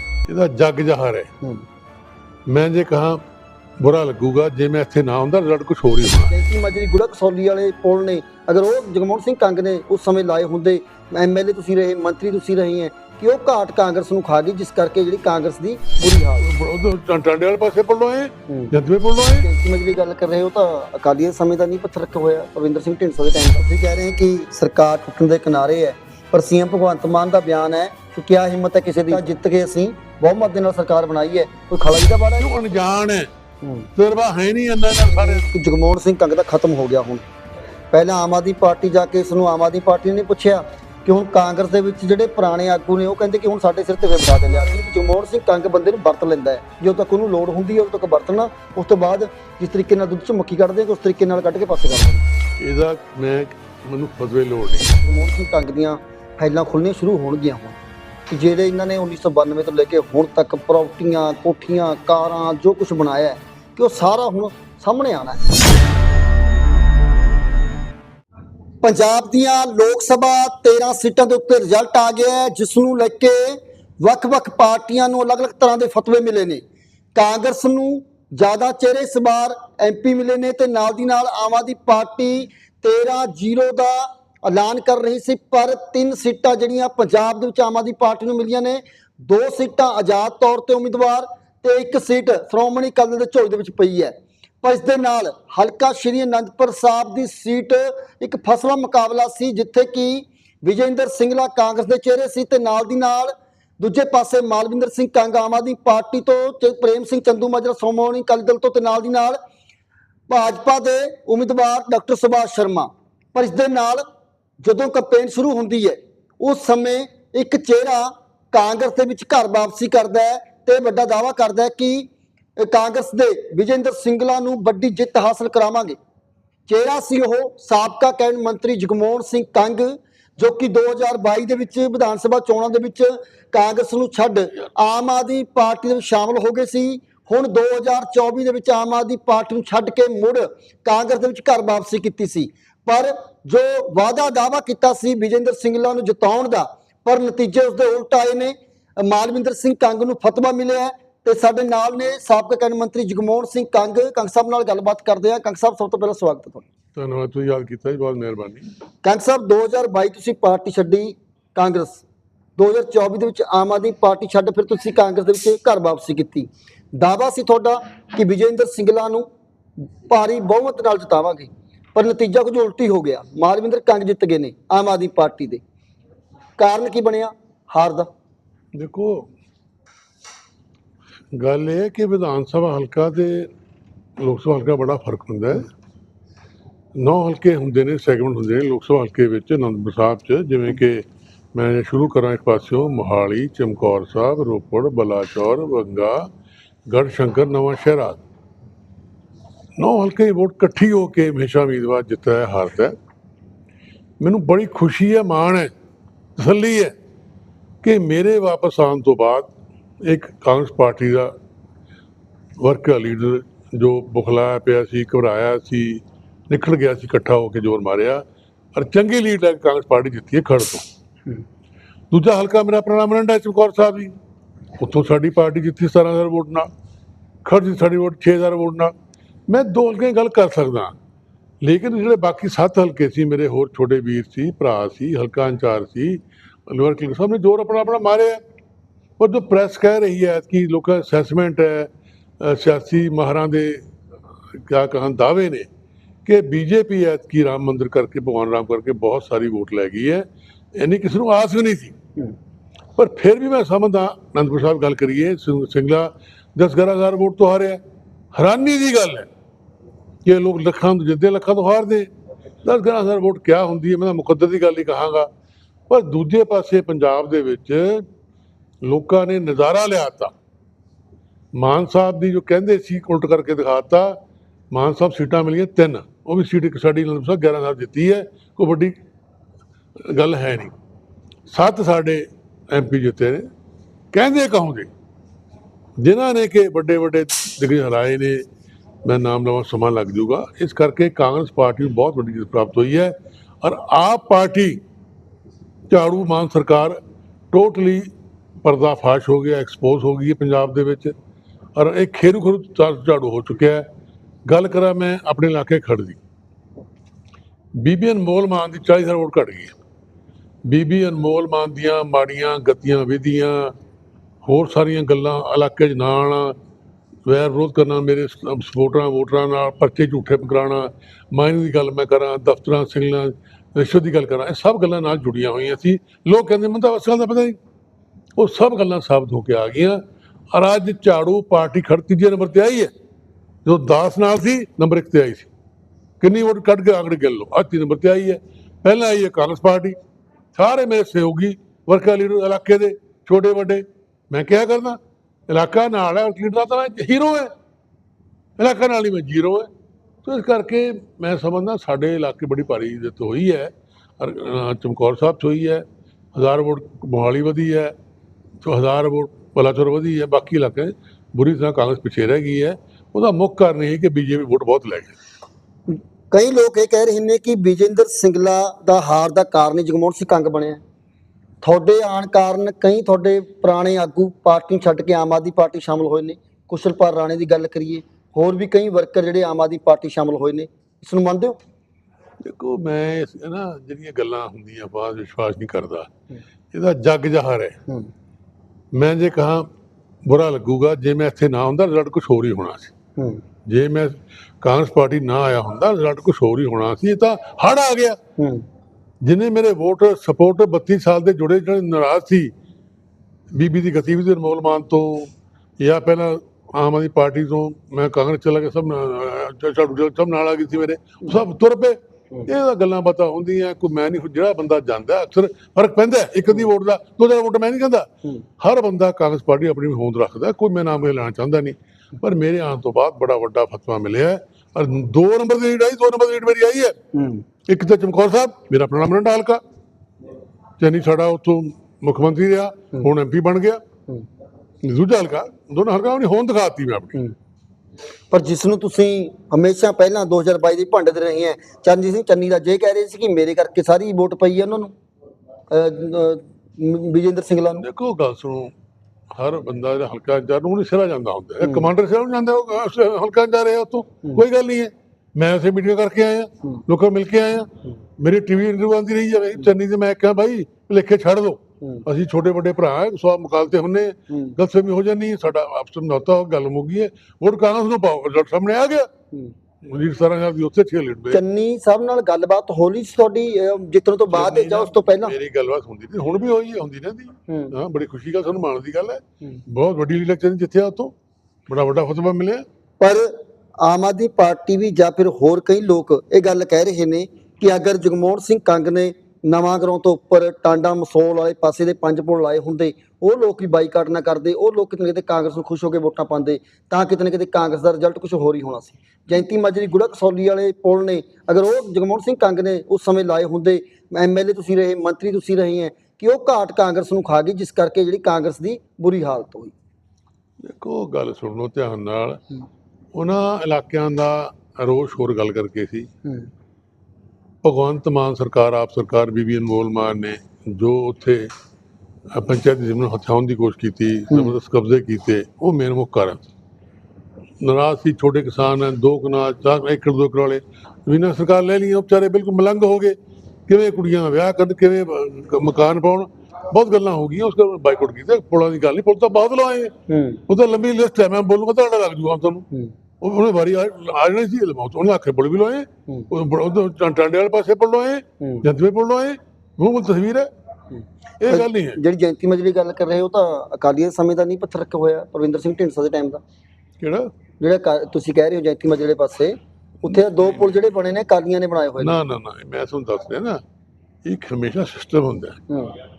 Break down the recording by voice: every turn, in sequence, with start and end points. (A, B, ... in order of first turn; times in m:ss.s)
0:00.3-0:01.3 A
0:02.5-0:03.2 A
0:03.8-0:06.3 A
0:06.3-0:16.5 B
0:16.4-0:19.5 A
0:19.4-0:32.5 B
0:32.4-0:33.3 A
0:33.6-0:33.9 B
0:34.0-0:35.5 A
0:35.1-0:37.2 B
0:37.9-0:52.2 B
0:52.6-0:55.0 A
0:55.0-0:57.8 B
0:58.3-1:05.4 B
1:08.8-1:16.6 B
1:17.2-1:49.4 B
1:50.3-1:54.0 B
1:54.6-2:06.0 B
2:06.7-2:36.7 B
2:37.0-2:38.7 A
2:39.0-2:42.0 B
2:42.6-2:49.3 B
2:50.1-2:55.6 B
2:56.6-2:58.1 B
2:58.8-2:59.3 A
3:01.3-3:03.5 A
3:04.2-3:05.7 A
3:07.0-3:16.3 A
3:16.9-3:18.2 A
3:19.8-3:23.0 A
3:24.2-3:25.7 A
3:26.4-3:26.9 A
3:27.8-3:29.5 A
3:30.0-3:31.3 A
3:32.6-3:38.2 A
3:38.8-3:40.8 A
3:42.1-3:44.2 A
3:44.8-3:46.7 A
3:47.4-3:48.9 A
3:49.5-3:51.0 A
3:51.6-3:58.4 A
3:59.2-4:03.8 A
4:04.6-4:05.7 A
4:06.3-4:12.0 A
4:13.0-4:17.8 A
4:18.4-4:19.3 A
4:20.2-4:22.1 A
4:22.6-4:25.3 A
4:25.9-4:28.1 A
4:28.8-4:30.3 A
4:31.6-4:34.2 A
4:34.7-4:39.0 A
4:40.0-4:40.8 A
4:41.5-4:43.5 A
4:44.1-4:44.9 A
4:46.0-4:48.4 A
4:49.0-4:54.8 A
4:55.9-4:57.0 A
4:57.5-4:58.1 A
4:58.6-5:01.2 A
5:01.8-5:03.9 A
5:04.5-5:06.2 A
5:07.8-5:09.8 A
5:10.7-5:13.7 A
5:14.4-5:16.6 A
5:17.3-5:27.6 A
5:28.4-5:30.0 A
5:30.5-5:32.9 A
5:33.6-5:35.5 A
5:36.2-5:40.0 A
5:40.6-5:47.5 A
5:48.6-5:49.7 A
5:50.2-5:57.9 A
5:58.6-6:05.2 A
6:05.9-6:10.8 B
6:11.6-6:21.6 B
6:22.4-6:26.1 A
6:26.7-6:27.8 A
6:28.9-6:29.7 A
6:30.2-6:32.9 A
6:33.2-6:33.4 B
6:33.7-6:38.2 A
6:38.4-6:38.6 B
6:39.2-6:42.5 A
6:43.5-6:58.1 A
6:58.6-7:07.0 A
7:07.1-7:07.4 B
7:07.7-7:09.6 A
7:10.8-7:13.8 A
7:14.8-7:17.2 A
7:18.3-7:24.9 B
7:25.7-7:27.9 B
7:27.8-7:28.7 A
7:29.3-7:49.1 A
7:31.6-7:31.9 B
7:44.3-7:44.6 B
7:49.8-7:51.4 A
7:51.3-7:55.3 B
7:54.3-8:01.1 A
7:57.5-7:57.8 B
8:01.7-8:02.6 A
8:03.0-8:29.7 B
8:30.6-8:32.4 A
8:33.2-8:36.1 A
8:37.6-8:41.5 A
8:42.3-8:46.5 A
8:47.6-8:53.2 A
8:53.7-8:59.9 A
9:00.1-9:00.4 B
9:00.5-9:02.7 A
9:03.2-9:10.5 A
9:11.4-9:12.0 A
9:11.5-9:16.4 B
9:17.0-9:17.3 A
9:17.6-9:22.2 B
9:20.1-9:20.7 A
9:22.0-9:23.6 A
9:24.2-9:25.6 A
9:25.7-9:26.0 B